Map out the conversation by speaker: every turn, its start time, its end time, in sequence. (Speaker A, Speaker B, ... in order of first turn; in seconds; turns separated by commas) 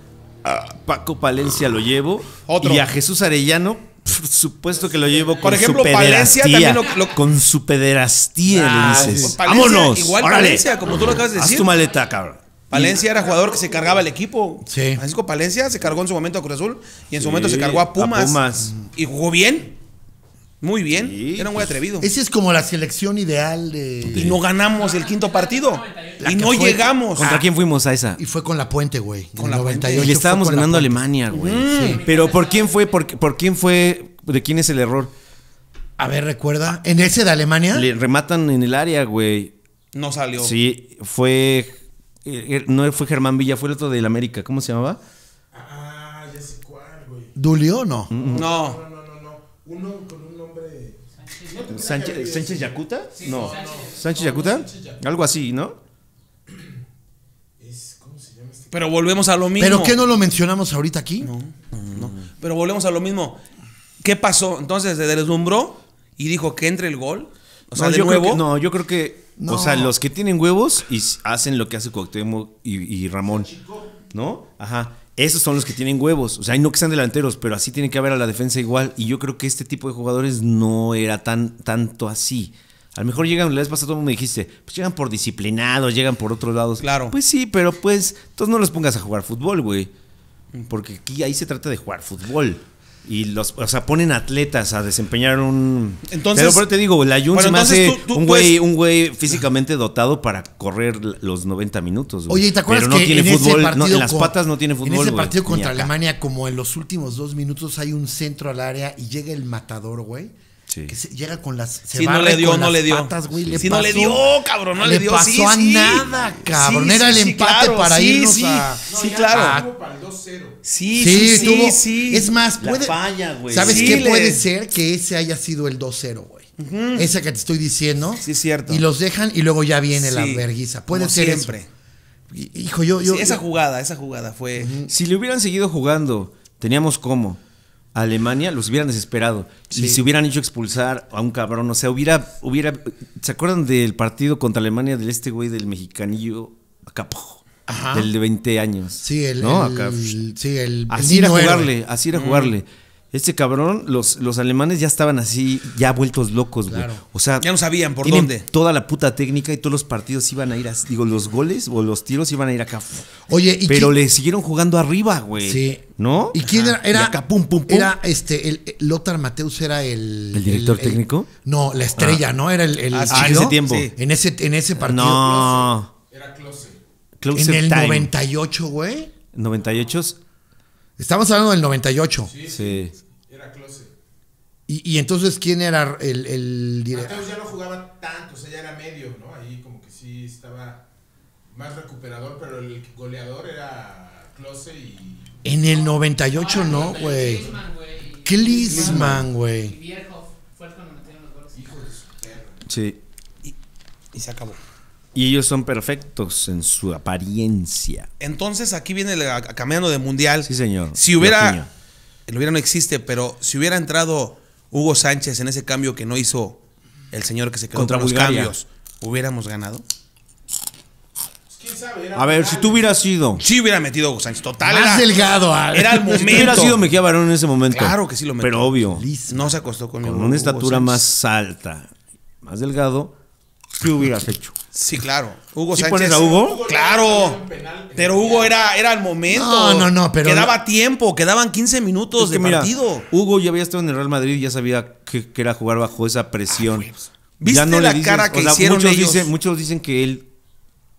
Speaker A: 0.4-12.9, Speaker B: 2.5-2.9, Speaker C: 4.7-5.8, Speaker B: 5.4-7.1, Speaker B: 8.5-11.7, Speaker D: 8.6-9.4, Speaker E: 10.4-12.0, Speaker B: 12.7-19.7, Speaker C: 12.7-14.1, Speaker D: 14.7-15.0, Speaker A: 17.2-18.7, Speaker B: 20.6-22.1, Speaker A: 20.9-21.8, Speaker D: 22.0-24.4, Speaker A: 24.1-24.4, Speaker B: 24.1-27.3, Speaker E: 24.6-26.8, Speaker D: 26.2-27.5, Speaker A: 27.1-28.2, Speaker D: 28.2-31.0, Speaker B: 29.4-30.1, Speaker A: 30.0-35.1, Speaker B: 31.3-32.0, Speaker D: 31.7-32.0, Speaker E: 31.8-33.2, Speaker D: 36.0-37.9, Speaker A: 37.7-39.5, Speaker B: 39.9-40.5, Speaker A: 40.4-41.7, Speaker A: 42.2-45.0, Speaker C: 45.5-47.4, Speaker D: 47.4-48.1, Speaker A: 48.1-48.5, Speaker C: 48.2-55.0, Speaker B: 48.4-48.8, Speaker E: 51.2-51.6, Speaker A: 51.7-55.8, Speaker E: 53.2-54.2, Speaker C: 57.6-59.2, Speaker B: 58.7-60.0, Speaker D: 59.6-61.3, Speaker B: 61.2-63.4, Speaker A: 62.0-62.2, Speaker B: 64.0-68.4, Speaker A: 67.8-73.5, Speaker D: 69.4-69.9, Speaker C: 73.2-74.0, Speaker A: 74.1-89.9, Speaker B: 86.8-87.2, Speaker A: 90.7-105.9, Speaker B: 96.1-96.7, Speaker B: 97.3-98.6, Speaker D: 102.3-110.3, Speaker A: 110.7-110.9, Speaker D: 110.9-119.7, Speaker B: 111.9-119.6, Speaker A: 113.3-114.1, Speaker C: 118.9-121.7, Speaker B: 120.6-122.3, Speaker D: 120.9-131.5, Speaker A: 122.6-124.0, Speaker B: 123.6-124.4, Speaker B: 126.6-127.1, Speaker B: 128.2-128.8, Speaker B: 129.9-131.7, Speaker D: 132.3-133.4, Speaker B: 133.0-134.7, Speaker D: 134.6-134.9, Speaker A: 134.9-137.4, Speaker A: 137.9-150.2, Speaker D: 139.7-140.0, Speaker D: 147.7-148.1, Speaker D: 149.0-151.7, Speaker A: 150.9-157.5, Speaker B: 152.1-152.6, Speaker D: 156.7-157.0, Speaker B: 157.4-158.5, Speaker A: 158.0-167.9, Speaker D: 163.3-164.0, Speaker D: 165.4-175.4, Speaker B: 166.4-166.7, Speaker A: 170.3-171.3, Speaker A: 172.0-172.2, Speaker B: 172.9-173.9, Speaker A: 173.1-173.9, Speaker A: 174.8-175.9, Speaker C: 175.1-176.8, Speaker A: 177.2-178.1, Speaker D: 177.3-179.1, Speaker A: 179.3-180.2, Speaker D: 181.0-182.3, Speaker C: 182.3-183.9, Speaker A: 182.5-182.9, Speaker D: 184.7-187.3, Speaker C: 186.9-190.8, Speaker C: 191.5-195.3, Speaker D: 195.4-197.5, Speaker E: 196.4-201.6, Speaker D: 198.2-199.8, Speaker B: 198.7-199.2, Speaker C: 201.5-202.6, Speaker A: 202.7-203.0, Speaker B: 204.1-204.6, Speaker A: 205.2-208.1, Speaker B: 208.2-211.6, Speaker A: 210.5-211.7, Speaker B: 212.3-216.6, Speaker B: 217.1-219.8, Speaker A: 217.7-218.5, Speaker C: 221.5-222.9, Speaker A: 222.2-223.4, Speaker B: 223.4-225.1, Speaker D: 224.6-226.8, Speaker B: 225.7-226.8, Speaker A: 226.2-229.1, Speaker B: 227.7-228.7, Speaker D: 228.9-229.6, Speaker B: 229.3-231.0, Speaker A: 230.0-231.9, Speaker A: 232.4-233.1, Speaker A: 233.8-234.6, Speaker B: 234.7-237.4, Speaker A: 235.7-236.6, Speaker C: 236.2-238.6, Speaker B: 237.9-243.1, Speaker D: 239.3-240.6, Speaker A: 242.2-246.9, Speaker B: 246.5-249.3, Speaker A: 247.4-250.3